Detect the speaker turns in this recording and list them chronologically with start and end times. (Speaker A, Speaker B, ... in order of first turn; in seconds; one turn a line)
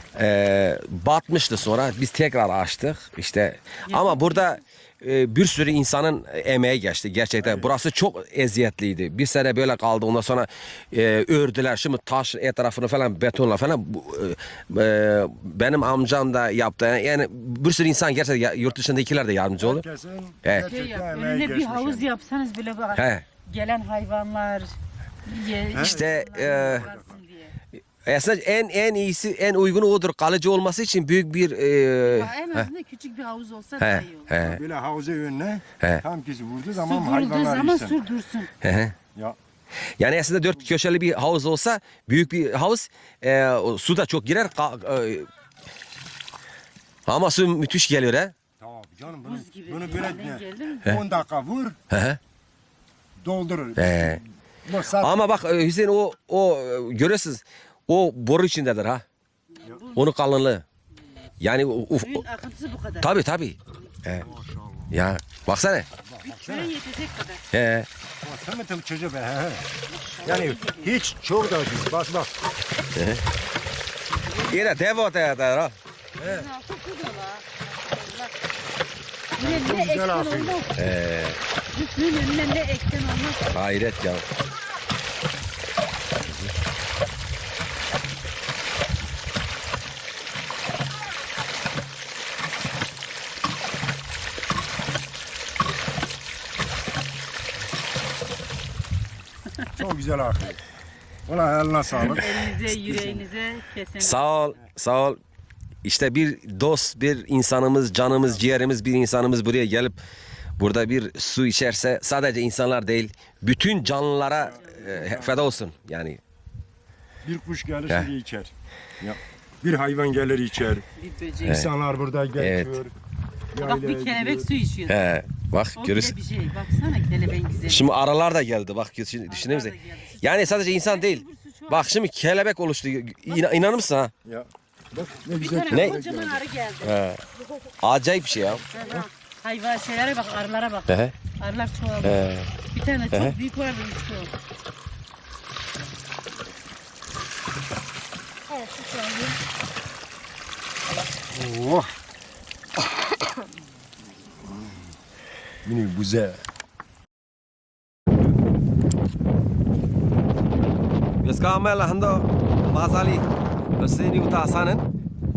Speaker A: 0.1-19.8
Speaker B: 3.9-4.6
Speaker C: 7.4-7.7
Speaker C: 19.6-22.1
Speaker A: 20.4-20.7
Speaker B: 20.6-24.8
Speaker A: 22.9-23.2
Speaker B: 25.3-27.5
Speaker C: 25.7-27.2
Speaker A: 25.7-26.9
Speaker A: 28.1-32.7
Speaker B: 32.0-34.3
Speaker A: 33.8-34.6
Speaker C: 34.4-38.0
Speaker B: 36.8-38.5
Speaker A: 38.6-39.0
Speaker A: 40.0-45.3
Speaker A: 47.1-48.3
Speaker C: 48.6-51.8
Speaker B: 49.2-51.1
Speaker A: 51.9-52.2
Speaker C: 53.2-55.3
Speaker A: 53.8-54.2
Speaker A: 55.0-59.0
Speaker B: 59.5-60.1
Speaker A: 60.0-60.6
Speaker A: 61.4-62.2
Speaker B: 62.0-63.1
Speaker A: 63.0-64.3
Speaker B: 63.7-64.3
Speaker C: 64.2-65.0
Speaker A: 64.9-65.9
Speaker C: 66.0-66.7
Speaker B: 66.2-67.4
Speaker A: 67.5-67.9
Speaker C: 68.2-69.7
Speaker B: 69.9-71.0
Speaker C: 70.2-72.3
Speaker A: 73.0-73.2
Speaker B: 74.3-74.7
Speaker A: 74.5-75.8
Speaker B: 76.2-78.3
Speaker C: 76.2-76.5
Speaker C: 79.4-80.6
Speaker B: 79.4-80.7
Speaker A: 80.8-81.4
Speaker B: 81.7-83.5
Speaker A: 83.5-84.2
Speaker C: 99.7-100.6
Speaker C: 101.3-103.2
Speaker B: 102.0-104.2
Speaker A: 104.0-105.2
Speaker A: 105.8-110.0
Speaker A: 110.6-116.2
Speaker C: 114.3-115.5
Speaker C: 117.2-120.9
Speaker B: 121.0-121.6
Speaker C: 121.5-122.9
Speaker A: 122.4-122.8
Speaker C: 123.5-124.5
Speaker B: 123.6-125.0
Speaker A: 124.9-126.1
Speaker B: 125.8-127.9
Speaker A: 127.7-134.1
Speaker B: 129.3-131.9
Speaker B: 133.3-133.6
Speaker C: 134.2-136.4
Speaker B: 135.3-137.4
Speaker A: 135.7-136.0
Speaker A: 136.8-137.2
Speaker A: 137.8-138.6
Speaker B: 138.7-144.3
Speaker C: 138.7-139.1
Speaker A: 140.9-141.1
Speaker A: 142.0-142.5
Speaker B: 148.5-149.4
Speaker C: 151.3-151.9
Speaker C: 155.6-156.4
Speaker A: 161.2-163.3
Speaker A: 163.8-164.8